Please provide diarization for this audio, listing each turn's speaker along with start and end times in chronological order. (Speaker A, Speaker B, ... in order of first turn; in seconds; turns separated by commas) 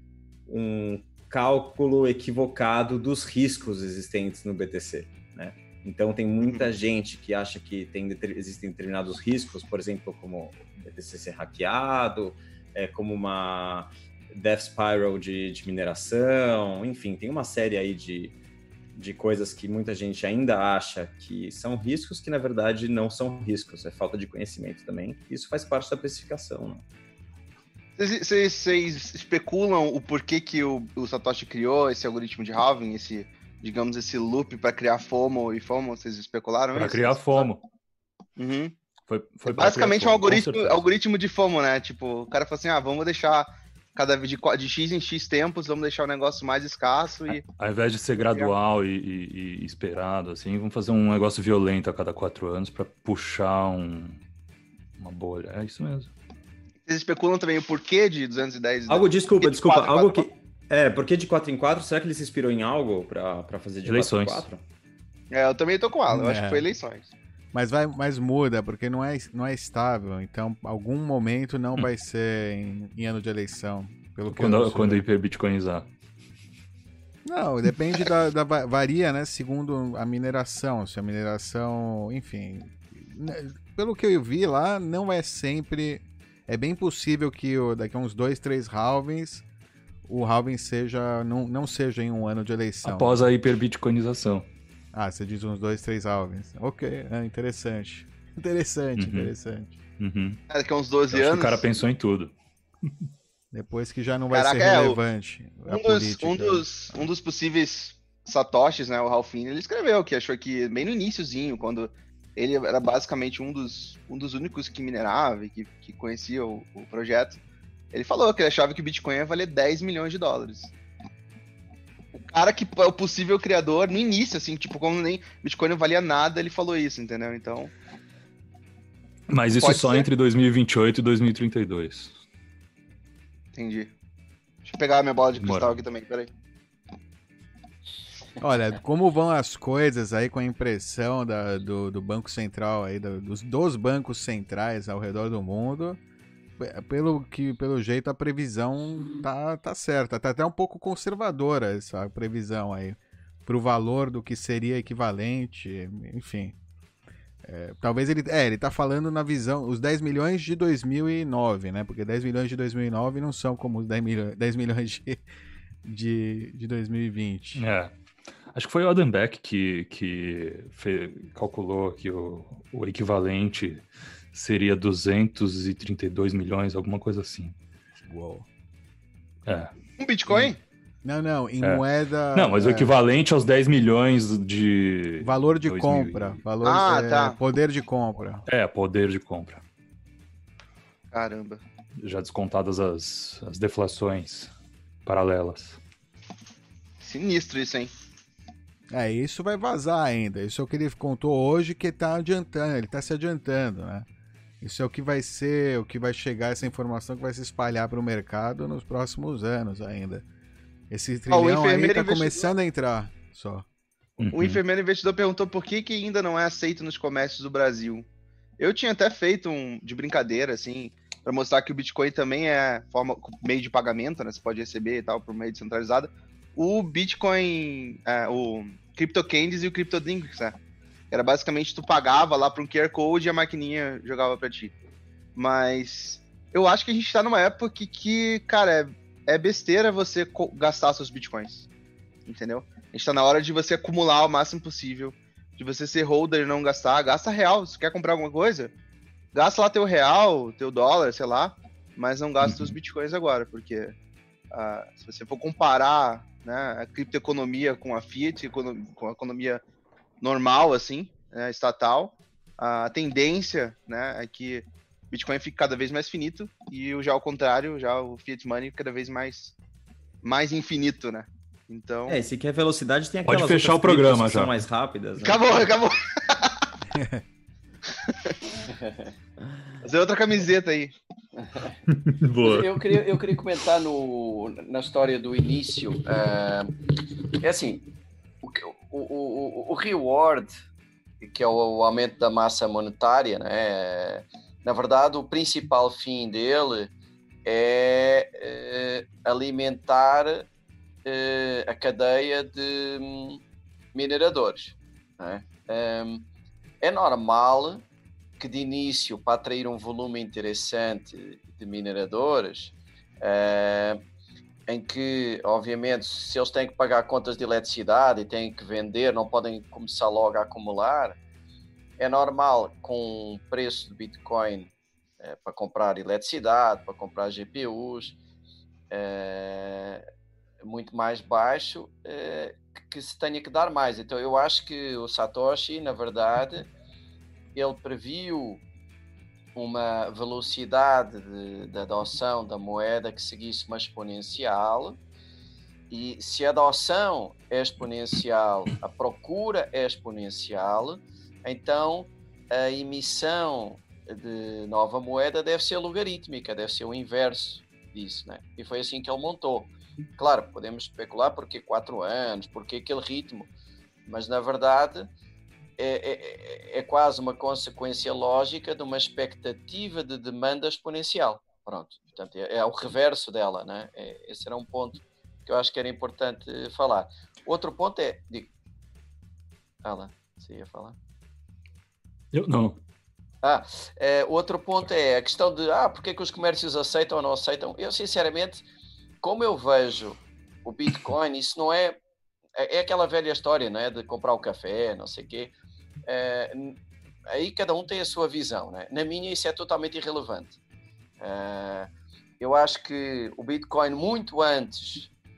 Speaker A: 0.5-18.3, Speaker B: 6.4-6.7, Speaker A: 18.9-26.8, Speaker B: 28.0-37.5, Speaker C: 36.7-37.6, Speaker B: 38.4-38.7, Speaker C: 39.1-40.9, Speaker B: 39.4-47.4, Speaker C: 47.3-54.2, Speaker C: 55.0-56.1, Speaker B: 56.9-60.3, Speaker A: 58.9-64.6, Speaker C: 63.8-64.5, Speaker B: 65.3-67.1, Speaker D: 66.1-66.7, Speaker D: 67.5-75.0, Speaker C: 74.3-75.9, Speaker D: 77.2-89.4, Speaker D: 90.0-93.2, Speaker C: 92.8-94.5, Speaker D: 94.9-99.7, Speaker C: 99.0-99.3, Speaker C: 100.0-100.4, Speaker B: 100.5-101.6, Speaker C: 101.1-102.3, Speaker D: 103.5-106.7, Speaker B: 104.3-105.0, Speaker B: 105.7-117.4, Speaker B: 117.9-120.7, Speaker B: 122.1-127.7, Speaker C: 129.3-132.1, Speaker B: 129.6-130.1, Speaker B: 133.5-133.9, Speaker B: 134.6-136.3, Speaker C: 135.4-135.8, Speaker D: 138.4-146.0, Speaker D: 146.6-156.5, Speaker D: 157.4-165.2, Speaker D: 165.8-167.6, Speaker C: 167.6-167.9, Speaker C: 168.5-177.5, Speaker D: 178.1-178.4, Speaker B: 180.0-180.6, Speaker D: 180.3-183.0, Speaker C: 181.6-186.4, Speaker D: 185.2-188.4, Speaker B: 186.6-187.4, Speaker C: 188.5-189.6, Speaker B: 191.1-191.6, Speaker C: 192.0-194.5, Speaker C: 195.0-195.8, Speaker B: 197.0-197.9, Speaker D: 198.9-204.1, Speaker D: 204.6-210.2, Speaker D: 210.9-213.6, Speaker B: 211.3-212.5, Speaker C: 214.2-214.6, Speaker B: 214.3-218.1, Speaker B: 218.6-230.6, Speaker B: 231.1-234.7, Speaker B: 235.3-241.7, Speaker B: 242.2-248.7, Speaker B: 249.3-253.9, Speaker B: 254.5-259.6, Speaker B: 260.2-269.5, Speaker B: 270.2-272.2, Speaker A: 272.1-275.4, Speaker C: 273.2-274.6, Speaker B: 275.2-276.6, Speaker B: 278.0-278.3, Speaker E: 278.7-279.1, Speaker B: 279.8-280.9, Speaker E: 281.4-281.8, Speaker C: 281.9-283.1, Speaker E: 282.4-286.7, Speaker E: 287.4-287.9, Speaker E: 288.4-290.5, Speaker E: 291.2-296.9, Speaker E: 297.4-300.5, Speaker E: 301.0-303.4, Speaker E: 303.9-306.2, Speaker E: 306.8-307.8, Speaker E: 308.4-314.0, Speaker E: 314.7-321.2, Speaker E: 322.0-328.2, Speaker E: 328.9-330.1, Speaker E: 330.6-336.7, Speaker E: 337.5-338.6, Speaker E: 339.5-345.0, Speaker E: 345.9-363.5, Speaker E: 364.1-365.1, Speaker E: 365.8-378.5, Speaker E: 379.8-381.0, Speaker C: 382.3-382.8, Speaker E: 383.4-388.6, Speaker E: 389.2-392.0, Speaker E: 392.6-395.5, Speaker E: 396.1-396.8, Speaker E: 397.3-400.6, Speaker E: 401.2-405.1